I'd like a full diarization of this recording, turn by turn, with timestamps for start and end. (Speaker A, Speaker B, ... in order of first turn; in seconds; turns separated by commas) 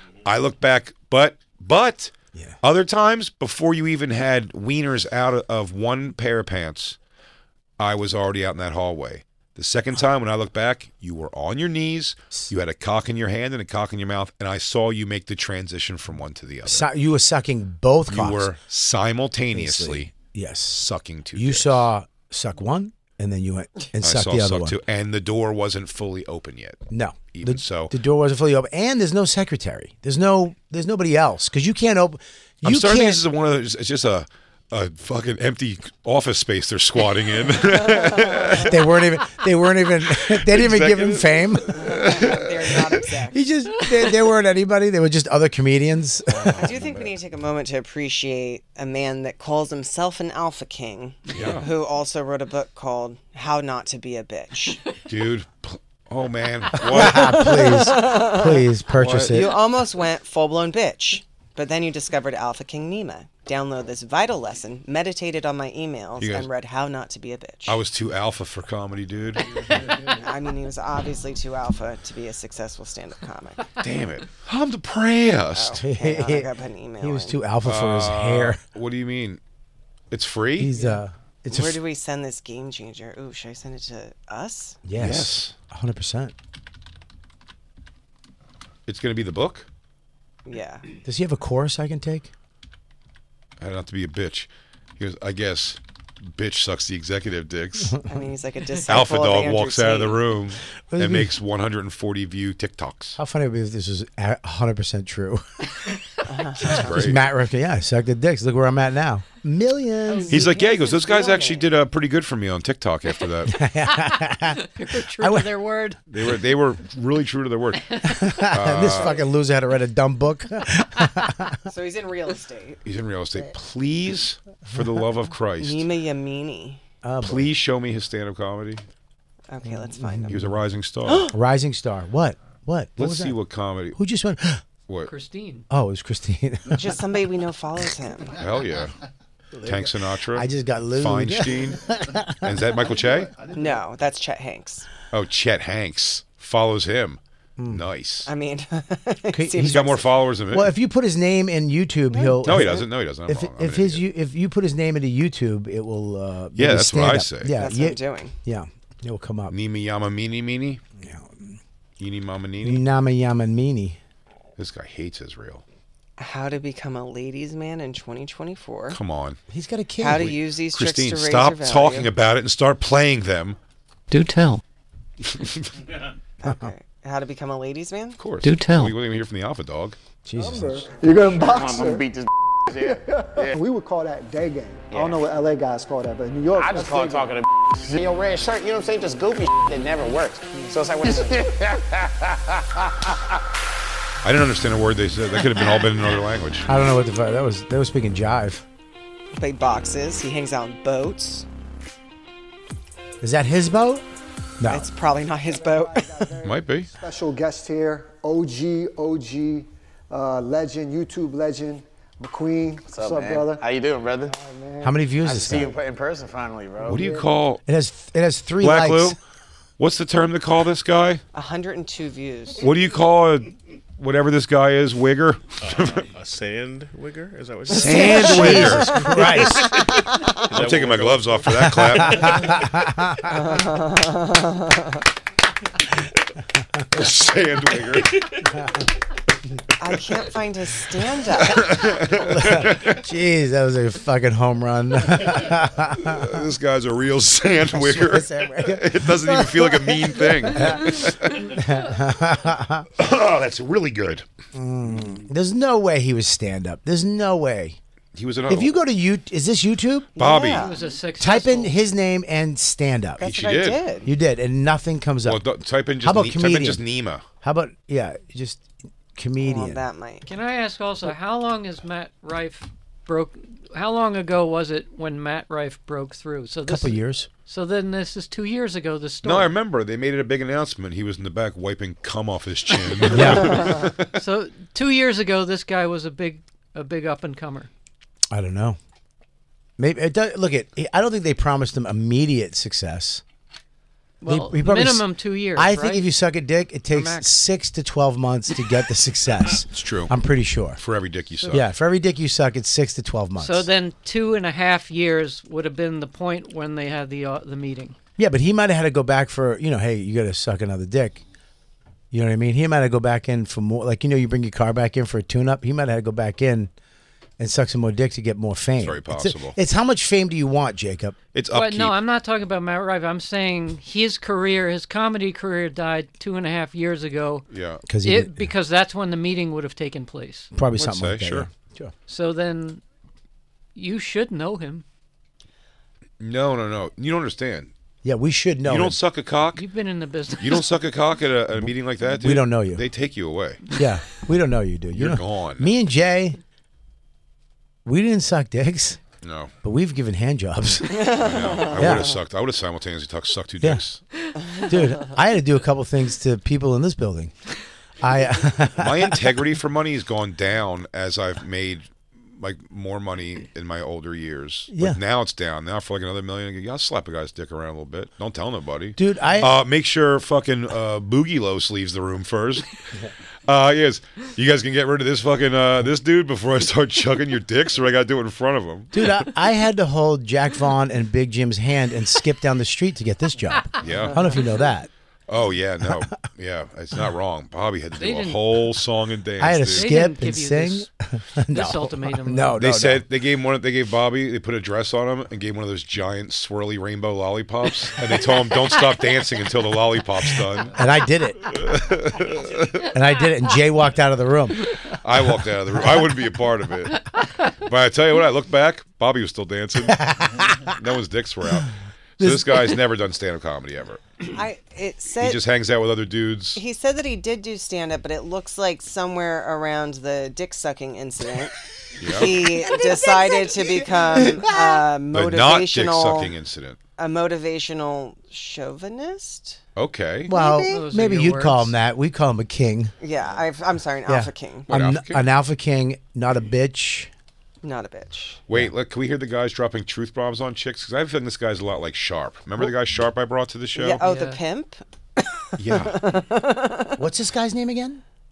Speaker A: 0.2-7.0, Speaker A: 7.8-16.9, Speaker B: 16.6-18.5, Speaker A: 18.1-20.1, Speaker B: 19.5-20.8, Speaker A: 20.7-21.9, Speaker B: 21.3-24.8, Speaker A: 24.0-26.8, Speaker B: 26.9-33.2, Speaker A: 27.3-27.9, Speaker A: 32.6-38.7, Speaker B: 38.6-41.8, Speaker A: 40.2-42.9, Speaker C: 41.8-43.4, Speaker B: 43.3-46.6, Speaker A: 46.3-47.1, Speaker C: 46.6-54.8, Speaker A: 51.3-51.6, Speaker A: 55.0-57.4, Speaker B: 56.8-59.5, Speaker C: 57.0-67.8, Speaker A: 59.0-59.4, Speaker A: 66.2-66.5, Speaker A: 67.7-69.5, Speaker C: 69.8-73.7, Speaker A: 73.8-75.8, Speaker C: 75.5-77.4, Speaker B: 75.8-76.5, Speaker B: 77.0-78.6, Speaker A: 77.6-79.4, Speaker A: 80.1-80.7, Speaker B: 80.6-81.8, Speaker C: 81.5-84.8, Speaker B: 84.8-86.3, Speaker A: 85.0-85.5, Speaker A: 88.8-89.7, Speaker C: 90.5-90.8, Speaker B: 91.0-92.3, Speaker A: 93.6-98.0, Speaker C: 98.1-100.2, Speaker A: 98.9-103.2, Speaker B: 100.9-101.3, Speaker B: 103.2-105.4, Speaker C: 106.2-107.0, Speaker A: 106.6-107.2, Speaker B: 106.7-110.5, Speaker C: 110.1-111.7, Speaker A: 110.3-113.5, Speaker B: 113.5-115.5, Speaker D: 114.6-116.0, Speaker A: 116.1-117.8, Speaker B: 118.0-121.6, Speaker A: 118.4-119.2, Speaker C: 121.7-122.8, Speaker A: 122.8-125.9, Speaker C: 125.6-126.8, Speaker B: 127.0-127.5, Speaker A: 127.2-128.8, Speaker C: 129.5-130.4, Speaker B: 129.9-130.5, Speaker A: 130.3-131.3, Speaker C: 131.1-131.3, Speaker B: 131.3-133.4, Speaker A: 133.0-134.0, Speaker B: 133.9-134.6, Speaker D: 135.0-135.7, Speaker B: 135.7-136.8, Speaker C: 136.7-138.4, Speaker A: 138.3-138.9, Speaker B: 139.6-142.5, Speaker A: 139.6-141.8, Speaker A: 142.4-143.3, Speaker C: 143.5-144.9, Speaker A: 145.1-148.3, Speaker B: 147.6-147.8, Speaker C: 148.2-150.1, Speaker B: 149.3-149.9, Speaker A: 149.6-150.7, Speaker B: 150.5-159.5, Speaker C: 152.1-152.8, Speaker A: 152.4-154.0, Speaker A: 156.5-157.5, Speaker C: 157.6-158.3, Speaker A: 159.5-160.8, Speaker B: 161.0-161.6, Speaker A: 162.0-162.8, Speaker B: 162.6-164.0, Speaker A: 164.6-165.6, Speaker C: 166.2-169.0, Speaker A: 168.9-169.4, Speaker B: 169.5-170.3, Speaker C: 170.0-172.1, Speaker A: 170.7-173.6, Speaker D: 174.1-174.6, Speaker A: 175.2-175.7, Speaker C: 176.4-178.2, Speaker B: 176.4-176.7, Speaker A: 178.2-180.0, Speaker D: 178.4-178.9, Speaker B: 180.2-180.9, Speaker E: 180.3-182.1, Speaker F: 181.1-183.6, Speaker E: 182.7-187.4, Speaker F: 184.9-185.2, Speaker F: 186.5-193.1, Speaker A: 194.2-196.7, Speaker B: 196.7-198.6, Speaker C: 199.3-201.4, Speaker B: 203.2-204.0, Speaker B: 204.6-204.8, Speaker C: 204.7-206.3, Speaker E: 205.4-213.7, Speaker A: 206.4-206.9, Speaker F: 212.9-214.4, Speaker E: 214.3-214.9, Speaker B: 214.8-215.7, Speaker F: 215.2-217.1, Speaker A: 216.8-217.6, Speaker E: 216.9-217.2, Speaker B: 217.7-219.2, Speaker A: 218.6-219.2, Speaker A: 219.8-221.2, Speaker C: 221.3-222.6, Speaker A: 222.6-226.1, Speaker G: 225.6-228.7, Speaker A: 227.7-229.6, Speaker C: 227.8-230.3, Speaker B: 227.8-229.8, Speaker G: 230.5-232.5, Speaker A: 230.5-232.6, Speaker B: 232.0-233.3, Speaker C: 233.3-235.0, Speaker A: 236.9-238.4, Speaker C: 239.8-241.8, Speaker A: 241.4-243.0, Speaker B: 242.1-246.3, Speaker A: 246.0-251.5, Speaker B: 247.7-252.9, Speaker A: 253.0-254.2, Speaker B: 254.5-257.8, Speaker A: 258.1-258.8, Speaker B: 258.5-260.1, Speaker A: 260.1-260.7, Speaker C: 260.1-261.0, Speaker D: 260.5-261.8, Speaker B: 261.2-263.2, Speaker C: 263.2-264.1, Speaker A: 263.2-263.8, Speaker B: 264.0-265.4, Speaker A: 265.2-267.2, Speaker B: 266.0-266.8, Speaker B: 267.4-269.8, Speaker C: 269.4-270.3, Speaker D: 270.2-279.5, Speaker B: 276.7-277.3, Speaker A: 279.2-284.1, Speaker B: 283.1-283.7, Speaker D: 284.1-287.7, Speaker B: 288.3-288.8, Speaker B: 289.8-293.2, Speaker D: 294.2-296.1, Speaker B: 294.2-300.8, Speaker D: 296.9-297.4, Speaker A: 299.7-300.1, Speaker A: 300.8-301.6, Speaker B: 301.5-303.7, Speaker D: 303.4-307.9, Speaker B: 308.2-311.2, Speaker B: 312.1-316.7, Speaker B: 317.4-321.1, Speaker A: 318.8-319.6, Speaker A: 321.3-321.9, Speaker D: 321.5-327.4, Speaker A: 327.5-327.8, Speaker B: 327.9-328.5, Speaker D: 328.0-330.5, Speaker B: 330.5-331.9, Speaker A: 330.8-331.5, Speaker D: 332.1-332.8, Speaker D: 333.7-334.8, Speaker A: 336.2-337.7, Speaker B: 338.0-339.0, Speaker A: 338.6-339.6, Speaker D: 339.5-340.7, Speaker A: 340.4-343.6, Speaker B: 342.2-342.8, Speaker B: 343.7-346.4, Speaker A: 344.9-345.7, Speaker B: 347.8-349.0, Speaker A: 349.2-349.5, Speaker B: 349.6-351.0, Speaker C: 350.9-352.0, Speaker A: 351.1-354.0, Speaker B: 351.7-352.1, Speaker B: 354.6-357.3, Speaker B: 358.0-359.2, Speaker A: 358.8-372.7, Speaker B: 364.7-365.0, Speaker B: 369.0-369.5, Speaker A: 373.5-379.0, Speaker B: 378.9-384.9, Speaker A: 383.8-384.3, Speaker A: 385.3-389.9, Speaker D: 388.0-388.4, Speaker B: 389.4-393.0, Speaker D: 389.7-390.9, Speaker D: 391.5-392.6, Speaker A: 392.5-400.8, Speaker B: 400.7-401.5, Speaker A: 401.4-402.9, Speaker B: 402.9-404.7, Speaker A: 404.9-410.1, Speaker B: 409.9-410.6, Speaker A: 410.6-411.7, Speaker B: 412.2-412.7, Speaker A: 412.2-414.0, Speaker C: 414.3-415.4, Speaker A: 415.2-416.6, Speaker C: 416.6-426.3, Speaker A: 422.0-422.4, Speaker B: 422.7-423.3, Speaker B: 424.1-424.8, Speaker A: 425.1-426.8, Speaker C: 427.0-429.6, Speaker A: 429.8-430.3, Speaker B: 430.3-432.9, Speaker D: 430.3-431.7, Speaker C: 433.0-434.7, Speaker B: 434.1-437.1, Speaker A: 434.7-435.2, Speaker C: 437.6-438.4, Speaker A: 438.5-444.0, Speaker C: 443.8-447.0, Speaker D: 444.0-444.4, Speaker A: 445.6-446.0, Speaker B: 447.0-448.0